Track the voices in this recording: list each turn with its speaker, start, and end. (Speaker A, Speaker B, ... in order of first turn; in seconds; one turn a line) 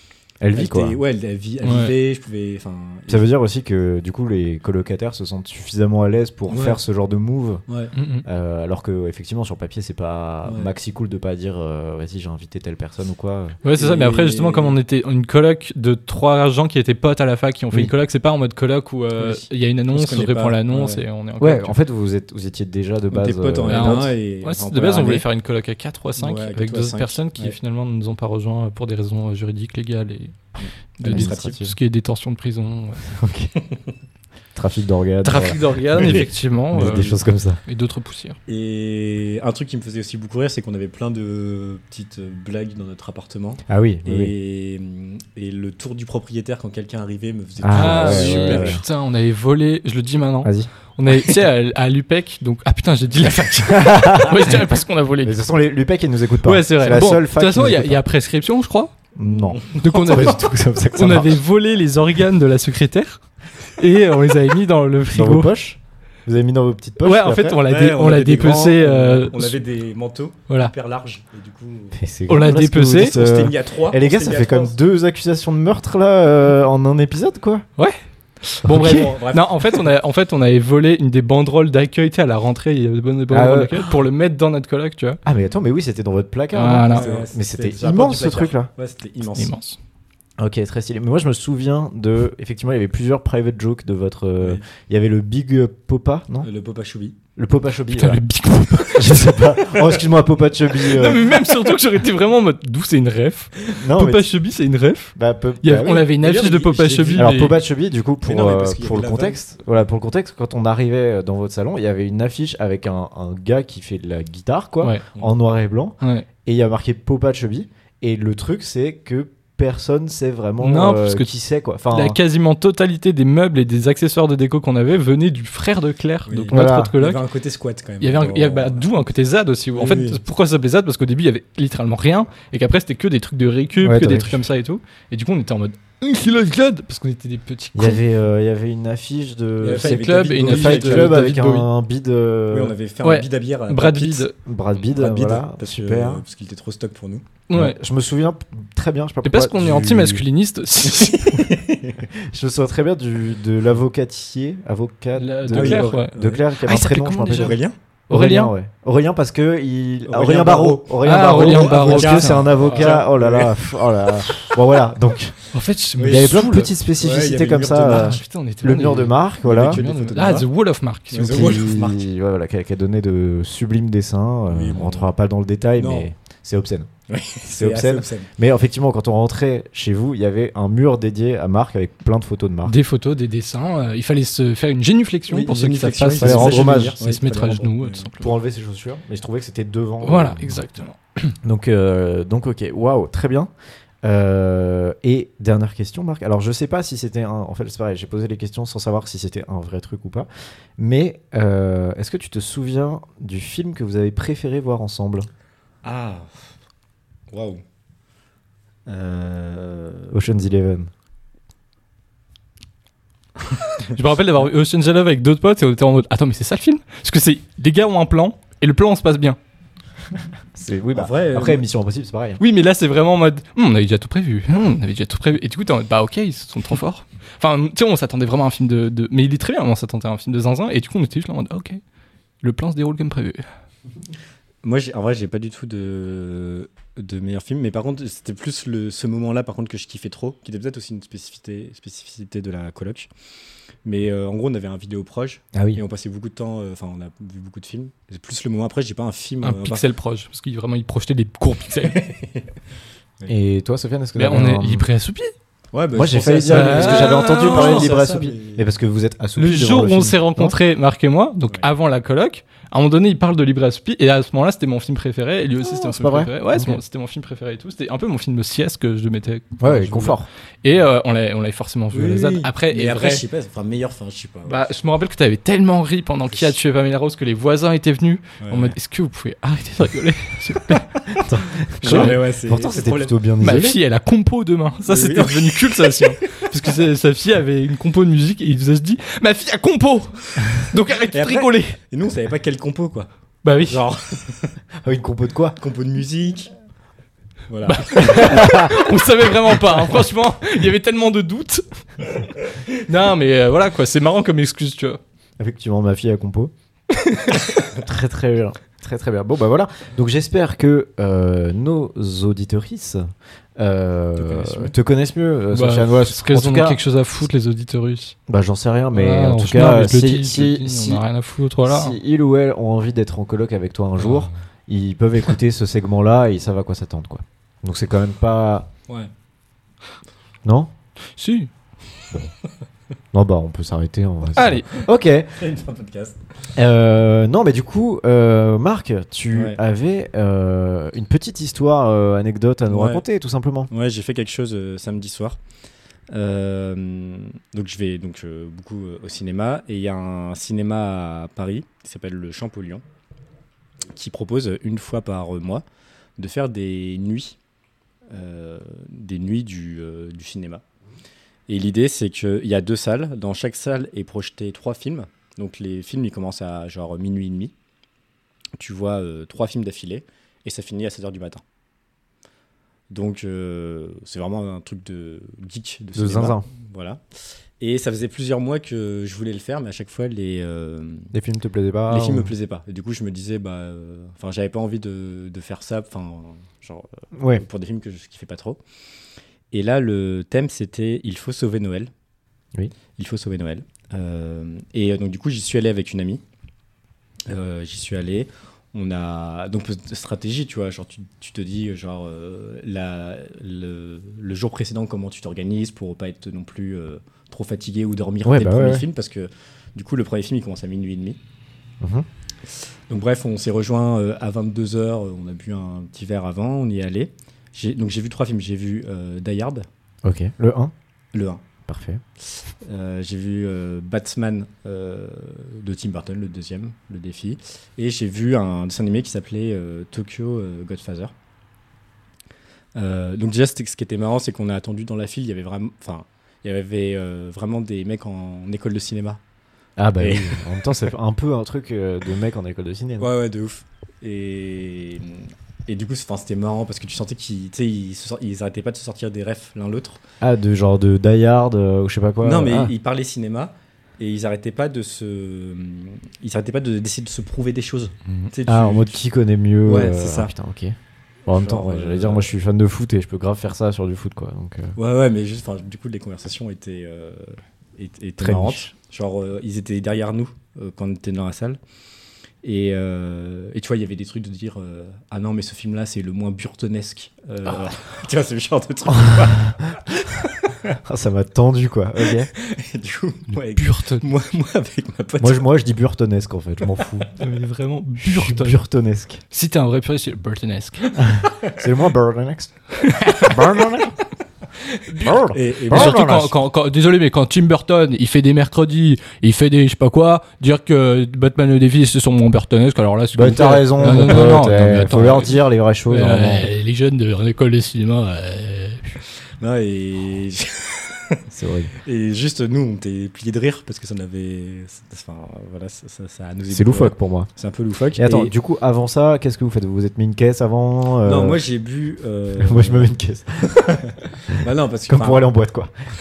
Speaker A: 0.4-1.0
Speaker B: 0.5-3.3
Speaker C: 1.6-1.9
Speaker A: 3.1-7.6
Speaker B: 6.5-6.8
Speaker C: 7.9-8.2
Speaker A: 8.2-13.6
Speaker B: 10.4-10.7
Speaker C: 13.6-21.8
Speaker B: 13.7-14.8
Speaker B: 19.2-21.0
Speaker A: 21.4-24.1
Speaker B: 23.1-25.2
Speaker C: 23.7-30.4
Speaker B: 26.2-27.5
Speaker B: 30.6-31.6
Speaker C: 31.0-33.0
Speaker A: 31.0-31.7
Speaker A: 33.0-33.5
Speaker A: 34.5-37.6
Speaker C: 35.2-38.4
Speaker B: 36.0-36.2
Speaker B: 36.8-37.1
Speaker B: 38.5-48.8
Speaker A: 43.7-44.3
Speaker A: 47.6-48.8
Speaker C: 47.7-55.4
Speaker A: 50.4-50.7
Speaker A: 53.7-54.7
Speaker A: 55.2-58.0
Speaker C: 56.4-58.9
Speaker A: 59.1-61.4
Speaker B: 59.2-59.8
Speaker C: 59.7-65.5
Speaker A: 65.1-67.6
Speaker C: 67.0-69.6
Speaker B: 67.7-72.0
Speaker A: 71.9-77.6
Speaker C: 72.3-73.2
Speaker B: 72.8-74.8
Speaker C: 77.8-85.2
Speaker A: 78.6-79.1
Speaker B: 78.7-79.9
Speaker A: 83.3-83.9
Speaker A: 85.2-88.7
Speaker C: 86.5-87.1
Speaker B: 86.8-89.5
Speaker C: 89.3-89.8
Speaker A: 90.4-96.5
Speaker B: 96.4-97.2
Speaker A: 97.3-98.2
Speaker C: 97.9-99.4
Speaker A: 98.9-101.3
Speaker C: 100.7-107.6
Speaker A: 103.7-104.3
Speaker A: 105.2-106.1
Speaker B: 106.2-107.5
Speaker A: 107.1-122.2
Speaker B: 108.2-109.7
Speaker C: 116.0-116.3
Speaker C: 120.6-121.3
Speaker C: 121.9-127.2
Speaker B: 126.3-128.9
Speaker A: 126.5-126.9
Speaker C: 128.0-138.0
Speaker B: 129.7-130.2
Speaker A: 133.8-134.4
Speaker A: 137.7-142.8
Speaker B: 139.6-141.2
Speaker C: 139.7-141.7
Speaker B: 142.5-144.3
Speaker C: 143.0-144.3
Speaker A: 144.4-146.2
Speaker B: 144.8-147.2
Speaker C: 147.5-147.8
Speaker A: 147.5-150.2
Speaker C: 149.2-151.5
Speaker B: 150.9-152.0
Speaker A: 152.1-165.4
Speaker C: 155.2-158.5
Speaker B: 155.5-156.4
Speaker B: 157.3-157.7
Speaker B: 160.1-164.1
Speaker C: 161.0-163.0
Speaker C: 165.5-166.7
Speaker B: 166.0-168.2
Speaker A: 166.0-169.8
Speaker C: 167.9-171.6
Speaker B: 169.4-170.5
Speaker B: 171.1-172.0
Speaker A: 171.2-176.9
Speaker B: 174.5-175.1
Speaker B: 175.8-176.1
Speaker B: 177.1-178.3
Speaker A: 177.4-182.7
Speaker C: 182.6-188.3
Speaker B: 185.3-188.1
Speaker A: 186.2-187.0
Speaker A: 188.2-190.6
Speaker C: 190.0-191.3
Speaker A: 191.4-193.5
Speaker A: 194.0-205.3
Speaker B: 205.8-206.5
Speaker B: 207.3-207.6
Speaker B: 208.8-210.1
Speaker A: 210.1-210.9
Speaker C: 213.9-219.4
Speaker A: 220.5-222.4
Speaker B: 220.9-221.6
Speaker C: 222.4-231.8
Speaker C: 232.4-233.4
Speaker B: 234.6-243.1
Speaker B: 243.8-249.8
Speaker A: 245.5-245.8
Speaker C: 249.4-252.1
Speaker B: 251.8-252.4
Speaker A: 253.3-254.8
Speaker C: 254.2-255.3
Speaker B: 255.7-258.6
Speaker A: 255.9-260.6
Speaker C: 256.5-257.9
Speaker C: 259.4-273.2
Speaker A: 265.6-266.8
Speaker A: 269.6-270.3
Speaker B: 271.9-274.7
Speaker C: 274.4-281.2
Speaker B: 278.4-278.7
Speaker A: 281.1-283.8
Speaker B: 281.8-283.1
Speaker C: 281.8-282.2
Speaker C: 283.4-291.8
Speaker B: 284.9-286.7
Speaker B: 291.1-293.1
Speaker C: 293.4-293.8
Speaker B: 293.7-294.6
Speaker A: 294.8-295.6
Speaker B: 295.6-296.5
Speaker B: 297.5-298.4
Speaker C: 297.6-305.0
Speaker A: 298.0-298.8
Speaker A: 305.4-306.5
Speaker C: 307.0-307.4
Speaker A: 307.7-316.8
Speaker B: 314.1-314.7
Speaker C: 315.5-318.1
Speaker A: 318.3-321.0
Speaker C: 318.9-321.9
Speaker A: 321.6-328.7
Speaker A: 330.4-330.7
Speaker C: 331.1-331.5
Speaker A: 333.1-335.4
Speaker C: 334.3-334.7
Speaker B: 334.7-336.2
Speaker A: 336.6-343.7
Speaker B: 339.3-339.6
Speaker B: 342.7-343.0
Speaker B: 343.7-345.4
Speaker B: 346.1-352.8
Speaker B: 353.9-355.6
Speaker B: 356.2-357.4
Speaker B: 358.1-360.6
Speaker B: 361.5-367.5
Speaker B: 368.6-371.4
Speaker B: 372.9-377.0
Speaker A: 375.9-376.4
Speaker B: 377.6-381.1
Speaker A: 381.1-382.3
Speaker B: 381.9-388.6
Speaker A: 387.1-387.4
Speaker B: 389.5-391.9
Speaker B: 393.0-396.2
Speaker B: 397.3-411.2
Speaker A: 408.2-408.9
Speaker A: 411.8-412.1
Speaker B: 412.9-419.6
Speaker A: 420.0-420.7
Speaker B: 421.1-421.4
Speaker A: 421.6-422.0
Speaker B: 422.3-431.1
Speaker B: 432.7-439.2
Speaker A: 439.8-443.1
Speaker B: 440.0-440.8
Speaker B: 443.0-450.0
Speaker A: 450.2-452.7
Speaker B: 452.2-459.0
Speaker A: 458.5-460.8
Speaker B: 459.6-460.3
Speaker A: 461.3-464.8
Speaker B: 461.3-462.3
Speaker B: 464.8-471.6
Speaker A: 468.2-468.7
Speaker B: 472.4-480.8
Speaker A: 480.8-482.3
Speaker B: 482.1-485.5
Speaker C: 483.6-484.1
Speaker A: 485.2-487.1
Speaker C: 487.1-488.6
Speaker A: 488.0-489.2
Speaker C: 489.3-490.9
Speaker A: 491.0-492.5
Speaker C: 492.8-493.4
Speaker A: 493.1-493.9
Speaker C: 494.9-505.3
Speaker A: 495.0-496.3
Speaker B: 495.3-496.0
Speaker A: 503.1-506.5
Speaker C: 505.9-509.0
Speaker B: 509.4-511.2
Speaker A: 511.3-511.7
Speaker B: 511.8-518.3
Speaker A: 516.5-517.3
Speaker A: 518.0-521.4
Speaker B: 521.0-522.9
Speaker A: 522.4-525.7
Speaker B: 523.6-525.3